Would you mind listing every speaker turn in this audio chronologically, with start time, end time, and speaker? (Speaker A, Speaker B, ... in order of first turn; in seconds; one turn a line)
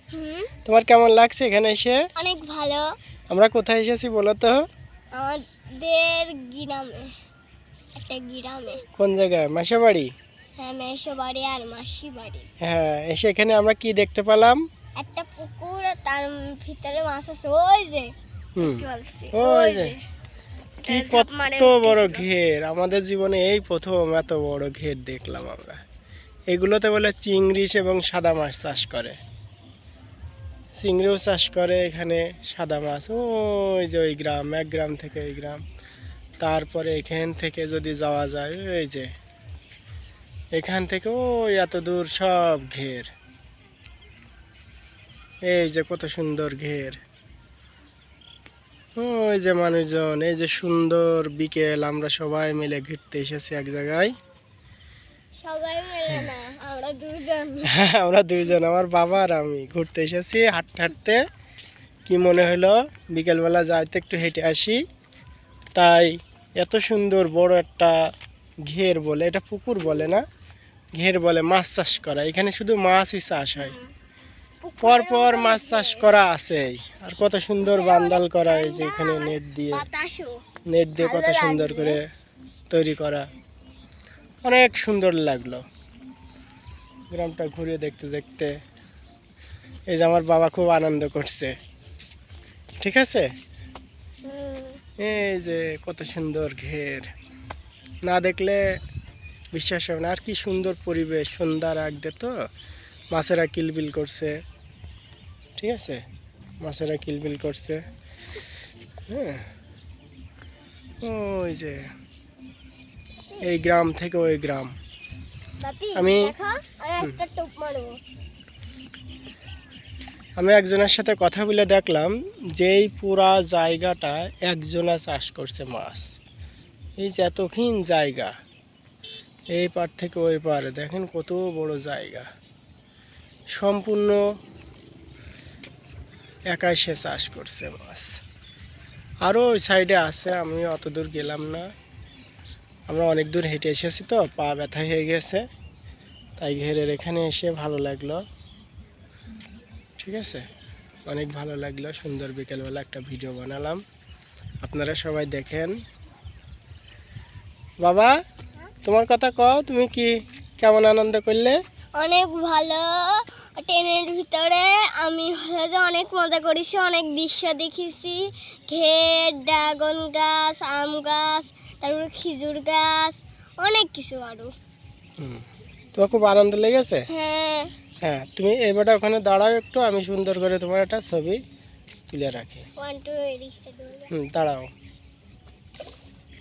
Speaker A: 0.1-0.5
Speaker B: 0.7-2.1
Speaker A: 2.2-2.9
Speaker B: 3.3-4.7
Speaker A: 5.1-7.1
Speaker A: 8.0-8.8
Speaker B: 9.0-10.1
Speaker A: 10.6-12.5
Speaker B: 12.6-14.7
Speaker A: 15.0-20.0
Speaker B: 18.6-19.9
Speaker A: 20.8-22.3
Speaker B: 20.9-25.8
Speaker B: 26.5-29.2
Speaker B: 30.8-35.6
Speaker B: 36.4-39.1
Speaker B: 40.5-43.1
Speaker B: 45.5-47.0
Speaker B: 49.0-54.1
Speaker A: 55.4-57.7
Speaker B: 57.7-61.2
Speaker B: 62.1-64.8
Speaker B: 65.8-68.0
Speaker B: 68.6-70.2
Speaker B: 71.0-73.8
Speaker A: 73.6-73.9
Speaker A: 74.6-76.1
Speaker B: 74.8-79.8
Speaker A: 77.6-80.4
Speaker B: 80.7-82.1
Speaker A: 81.0-82.0
Speaker B: 82.7-83.3
Speaker B: 84.5-85.6
Speaker B: 87.1-88.6
Speaker B: 89.9-91.6
Speaker B: 92.8-93.3
Speaker A: 94.2-94.8
Speaker B: 95.0-97.1
Speaker B: 98.0-98.6
Speaker B: 99.5-102.4
Speaker B: 103.1-104.4
Speaker B: 105.6-106.0
Speaker B: 106.6-107.8
Speaker B: 109.1-109.5
Speaker B: 111.0-111.9
Speaker B: 113.4-114.8
Speaker A: 115.6-118.0
Speaker B: 116.0-116.3
Speaker B: 120.4-126.2
Speaker B: 127.0-128.3
Speaker B: 129.5-132.3
Speaker B: 133.5-134.2
Speaker B: 136.5-138.2
Speaker B: 139.2-141.7
Speaker B: 142.9-145.4
Speaker B: 146.4-148.2
Speaker B: 150.0-150.4
Speaker B: 151.1-153.8
Speaker B: 154.6-155.8
Speaker B: 157.8-158.1
Speaker B: 158.8-161.6
Speaker A: 162.0-174.5
Speaker B: 175.2-177.1
Speaker A: 177.1-177.7
Speaker B: 178.0-181.4
Speaker B: 182.1-182.7
Speaker A: 182.8-184.1
Speaker B: 184.1-184.7